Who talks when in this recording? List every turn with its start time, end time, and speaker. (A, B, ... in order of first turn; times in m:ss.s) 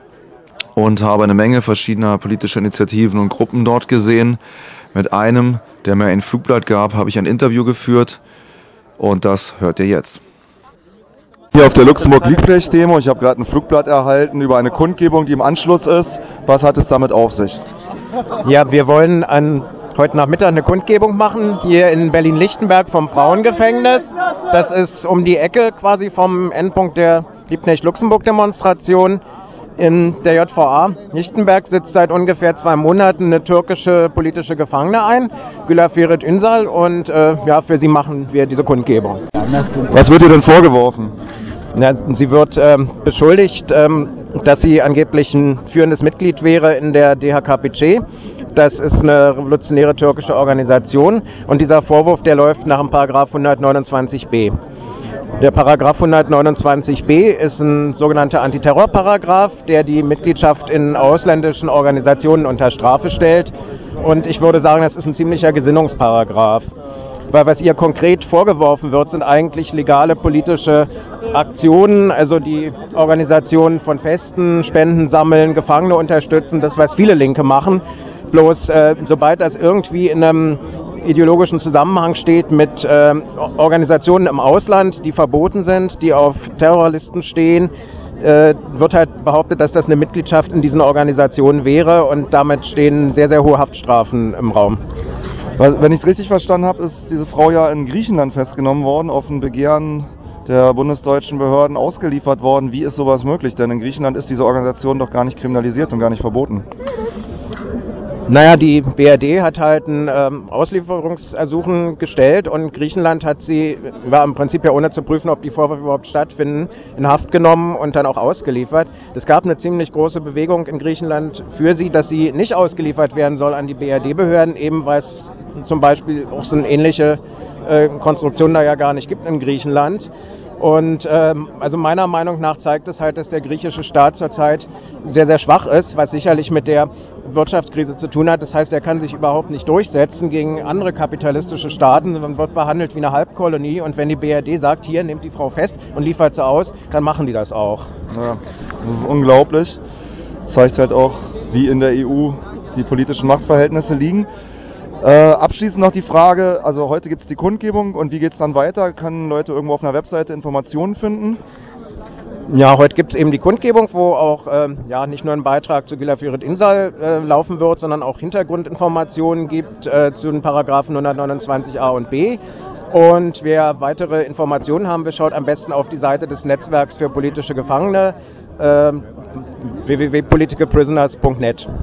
0:00.8-0:04.4 A
0:04.9-0:08.2 A
0:09.0-0:10.2 A
0:11.5-0:17.6 B
0:18.4-0:29.2 C
0:29.8-0:39.2 C
0:39.9-0:41.1 B
0:41.7-0:48.0 C
0:48.5-0:54.5 C
0:55.4-1:06.6 C
1:07.3-1:34.8 C
1:35.6-1:46.6 B
1:48.3-2:27.9 C
2:28.1-2:29.8 B
2:30.4-2:34.3 B
2:35.0-2:41.4 B
2:42.5-2:52.4 C
2:52.9-2:59.0 C
2:59.6-3:01.6 C